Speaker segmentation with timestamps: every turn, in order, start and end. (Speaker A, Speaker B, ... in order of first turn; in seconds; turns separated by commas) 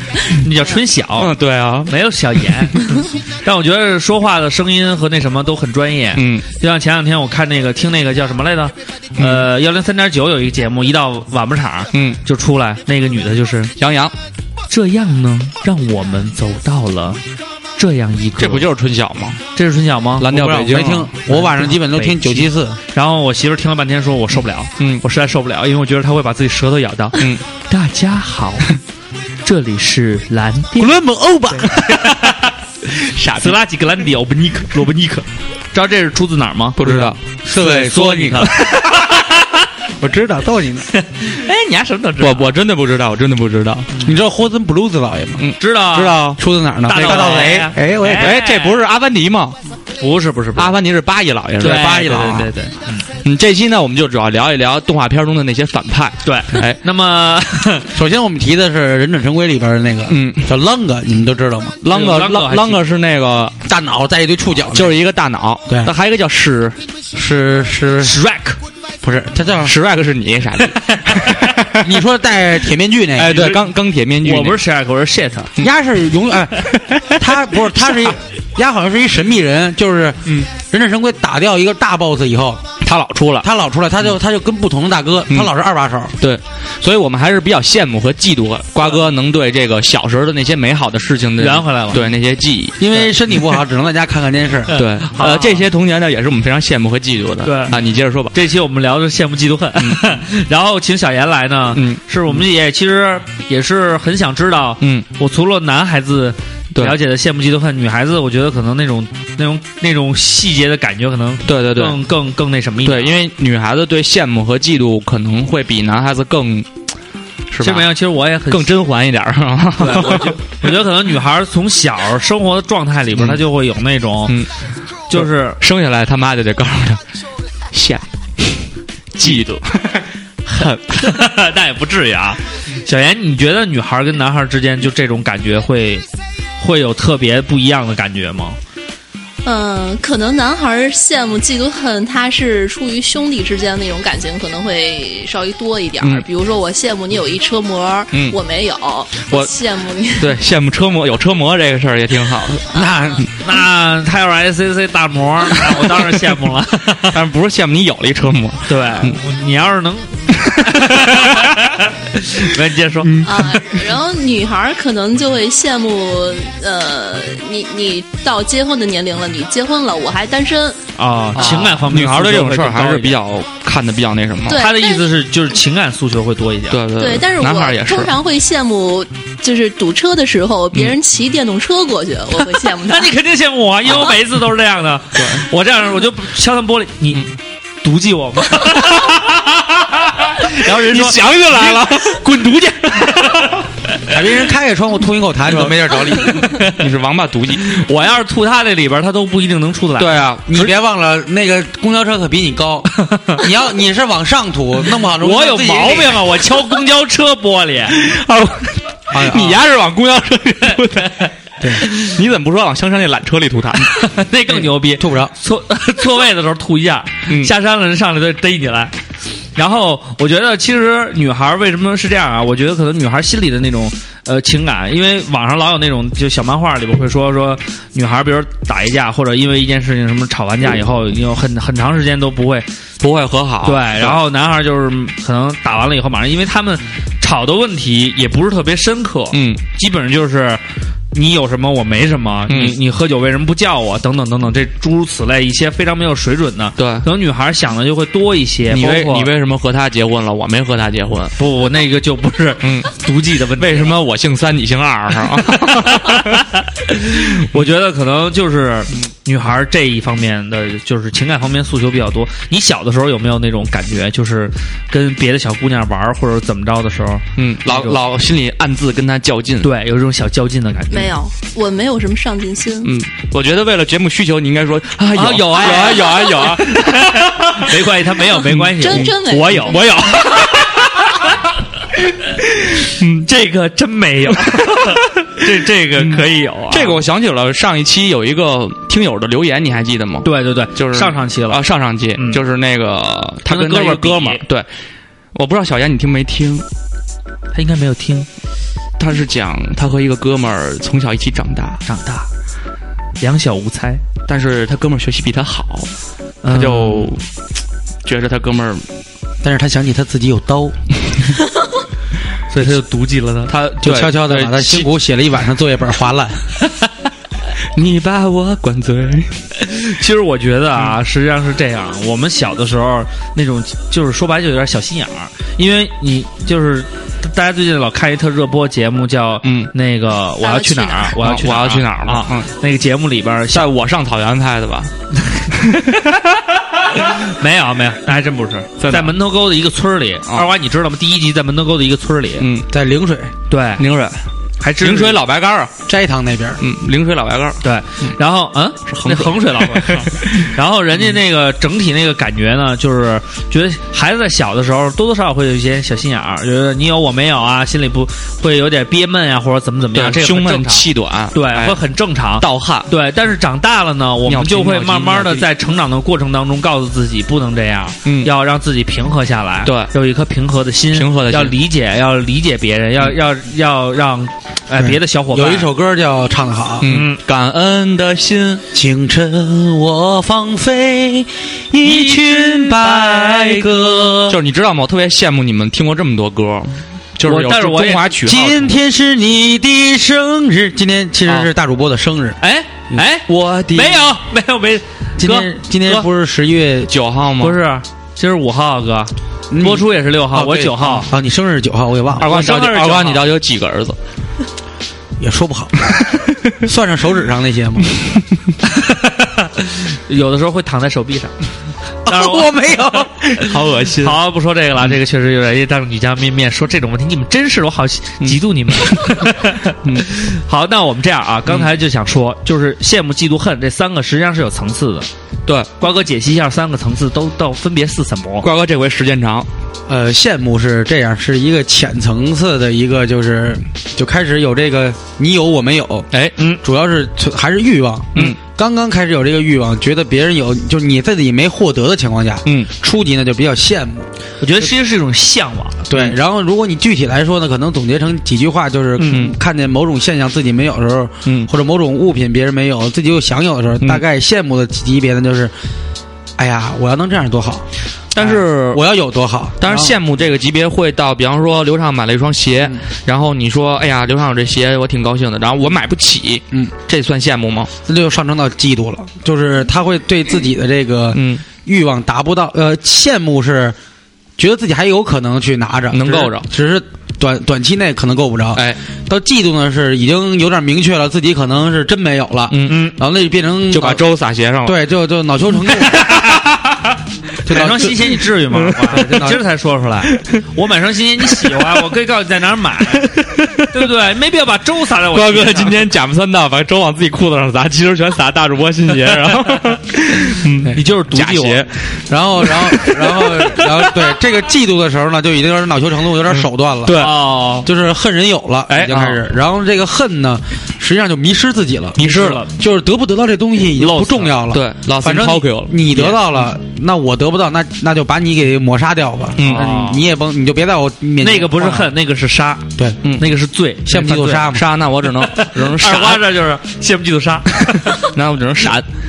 Speaker A: 0.4-1.3, Speaker B: 1.2-1.9, Speaker A: 1.9-13.7, Speaker B: 6.2-6.4, Speaker B: 9.2-9.5, Speaker B: 11.9-12.2, Speaker B: 13.8-14.1, Speaker A: 14.7-17.2, Speaker A: 17.8-18.7, Speaker B: 18.4-19.4, Speaker A: 19.5-20.3, Speaker B: 20.2-21.1, Speaker C: 20.3-22.8, Speaker A: 21.2-28.8, Speaker B: 27.1-27.4, Speaker A: 29.4-32.5, Speaker C: 30.8-32.0, Speaker B: 33.0-33.6, Speaker A: 33.4-37.0, Speaker B: 36.8-37.2, Speaker C: 36.8-38.8, Speaker A: 37.5-39.6, Speaker C: 40.0-40.9, Speaker A: 40.9-42.5, Speaker B: 42.2-43.9, Speaker C: 44.0-45.5, Speaker B: 45.4-46.4, Speaker A: 45.6-46.2, Speaker C: 46.2-48.4, Speaker A: 46.9-48.8, Speaker B: 46.9-47.6, Speaker B: 48.2-49.6, Speaker A: 50.0-50.8, Speaker B: 50.5-52.5, Speaker A: 51.6-53.0, Speaker C: 51.6-52.4, Speaker B: 53.2-56.8, Speaker A: 56.2-57.9, Speaker C: 57.9-61.8, Speaker B: 60.1-60.5, Speaker B: 61.8-63.6, Speaker A: 61.9-62.8, Speaker C: 63.6-65.0, Speaker B: 64.7-66.8, Speaker C: 65.7-65.9, Speaker C: 67.1-68.2, Speaker A: 68.0-68.6, Speaker C: 69.0-69.8, Speaker B: 69.6-71.9, Speaker A: 70.8-71.4, Speaker C: 71.8-73.5, Speaker B: 73.2-74.6, Speaker A: 73.3-73.6, Speaker A: 74.2-75.5, Speaker C: 75.6-82.7, Speaker B: 76.7-77.2, Speaker B: 82.8-83.5, Speaker C: 83.4-86.2, Speaker B: 86.2-92.9, Speaker A: 91.4-92.1, Speaker C: 92.8-94.8, Speaker A: 94.7-95.6, Speaker B: 94.8-98.3, Speaker A: 97.5-97.8, Speaker A: 98.3-113.1, Speaker B: 101.7-102.0, Speaker B: 104.8-105.0, Speaker B: 111.5-112.0, Speaker B: 112.8-116.7, Speaker B: 117.5-117.9, Speaker A: 117.6-118.7, Speaker B: 118.5-120.4, Speaker A: 119.8-124.4, Speaker B: 123.1-123.4, Speaker A: 125.1-125.6, Speaker B: 125.1-127.0, Speaker B: 127.7-128.6, Speaker B: 129.2-131.2, Speaker A: 129.2-129.6, Speaker A: 130.6-136.1, Speaker A: 136.6-138.6, Speaker D: 139.4-150.4, Speaker B: 148.1-148.4, Speaker B: 150.2-152.7, Speaker C: 152.7-153.2, Speaker A: 153.4-157.2, Speaker B: 157.1-159.2, Speaker A: 158.7-163.3, Speaker B: 160.5-161.6, Speaker B: 163.0-163.7, Speaker D: 163.2-170.8, Speaker A: 171.0-173.2, Speaker B: 171.3-174.7, Speaker D: 174.5-175.1, Speaker A: 174.5-176.8, Speaker B: 176.7-178.1, Speaker D: 177.0-183.1, Speaker A: 182.8-187.3, Speaker B: 185.2-185.4, Speaker A: 187.8-189.2, Speaker B: 188.8-193.6, Speaker A: 190.3-193.6, Speaker C: 194.1-196.5, Speaker B: 195.5-197.8, Speaker A: 197.6-200.2, Speaker B: 200.0-200.7, Speaker C: 200.5-206.2, Speaker A: 203.0-203.4, Speaker A: 205.2-208.0, Speaker B: 207.9-211.3, Speaker C: 209.1-209.6, Speaker A: 211.0-211.3, Speaker A: 211.8-212.2, Speaker B: 211.9-214.0, Speaker A: 213.9-218.9, Speaker C: 214.8-215.3, Speaker A: 219.6-232.7, Speaker B: 233.0-234.2, Speaker A: 233.7-240.6, Speaker B: 239.3-239.6, Speaker A: 241.1-249.3, Speaker B: 242.5-242.8, Speaker B: 246.8-247.1, Speaker B: 248.7-251.3, Speaker A: 251.4-254.0, Speaker B: 252.6-252.9, Speaker B: 253.6-256.5, Speaker A: 255.5-268.0, Speaker B: 267.4-269.7, Speaker A: 269.6-271.1, Speaker D: 270.9-272.9, Speaker B: 272.8-277.7, Speaker A: 275.1-281.2, Speaker B: 278.4-280.9, Speaker D: 278.8-280.0, Speaker A: 282.2-287.0, Speaker B: 282.8-283.3, Speaker B: 286.0-294.7, Speaker A: 290.2-291.6, Speaker A: 292.2-292.4, Speaker A: 293.5-294.4, Speaker B: 295.3-296.6, Speaker A: 297.5-298.3, Speaker B: 299.0-301.8, Speaker A: 301.8-302.3, Speaker A: 303.2-304.0, Speaker B: 304.3-305.9, Speaker A: 306.4-307.1, Speaker B: 306.5-307.2, Speaker B: 308.0-308.8, Speaker C: 309.4-310.8, Speaker A: 312.5-313.5, Speaker B: 313.5-314.9, Speaker C: 313.8-316.4, Speaker B: 317.8-319.4, Speaker A: 319.6-333.7, Speaker B: 329.4-329.7, Speaker D: 330.4-331.2, Speaker B: 331.2-332.5, Speaker B: 333.5-334.9, Speaker A: 335.2-336.2, Speaker B: 335.5-336.1, Speaker A: 336.9-342.5, Speaker B: 338.8-339.2, Speaker B: 342.4-342.7, Speaker C: 342.7-343.3, Speaker A: 343.5-343.8, Speaker B: 343.8-344.2, Speaker A: 344.6-345.2, Speaker B: 344.8-345.8, Speaker C: 345.9-346.6, Speaker B: 346.6-348.1, Speaker A: 347.6-375.7, Speaker B: 348.9-350.5, Speaker B: 359.9-361.8, Speaker B: 362.4-362.9, Speaker B: 364.2-365.5, Speaker B: 368.0-368.3, Speaker B: 369.6-369.9, Speaker B: 370.9-371.6, Speaker C: 374.8-376.9, Speaker B: 376.8-378.6, Speaker A: 376.8-377.2, Speaker C: 378.7-384.4, Speaker A: 381.8-383.6, Speaker B: 384.3-388.8, Speaker A: 387.2-388.2, Speaker C: 388.2-392.4, Speaker A: 392.4-396.1, Speaker B: 393.3-394.1, Speaker C: 395.2-396.9, Speaker B: 396.9-397.6, Speaker A: 397.4-401.1, Speaker C: 399.5-402.3, Speaker A: 402.2-403.3, Speaker B: 402.2-404.0, Speaker C: 405.2-407.9, Speaker A: 408.6-411.3, Speaker C: 412.1-413.3, Speaker A: 412.1-425.1, Speaker B: 413.3-414.2, Speaker B: 418.2-419.3, Speaker A: 425.8-428.5, Speaker B: 428.4-429.5, Speaker C: 429.9-436.1, Speaker C: 436.6-444.1, Speaker A: 444.4-445.9, Speaker C: 445.9-455.5, Speaker A: 449.0-449.2, Speaker B: 449.1-449.3, Speaker C: 456.4-459.9, Speaker B: 458.1-458.8, Speaker B: 459.6-467.7, Speaker C: 467.9-473.8, Speaker B: 471.1-471.4, Speaker C: 474.4-484.0, Speaker B: 475.9-476.5, Speaker B: 482.5-482.9, Speaker A: 482.7-482.9, Speaker B: 483.7-484.8, Speaker C: 484.6-486.3, Speaker B: 485.7-486.9, Speaker C: 487.4-488.2, Speaker A: 487.5-495.8, Speaker C: 488.8-489.4, Speaker B: 493.2-493.6, Speaker B: 495.1-504.0, Speaker A: 500.7-501.6, Speaker C: 502.1-507.1, Speaker B: 506.3-507.2, Speaker A: 506.9-507.7, Speaker C: 507.6-521.9, Speaker B: 508.7-509.2, Speaker B: 512.0-512.4, Speaker A: 512.0-512.5, Speaker A: 513.9-514.2, Speaker B: 514.5-516.2, Speaker B: 519.4-519.7, Speaker A: 519.4-520.0, Speaker A: 521.2-524.5, Speaker C: 523.9-524.7, Speaker B: 524.5-526.3, Speaker A: 525.1-528.0, Speaker B: 527.9-528.9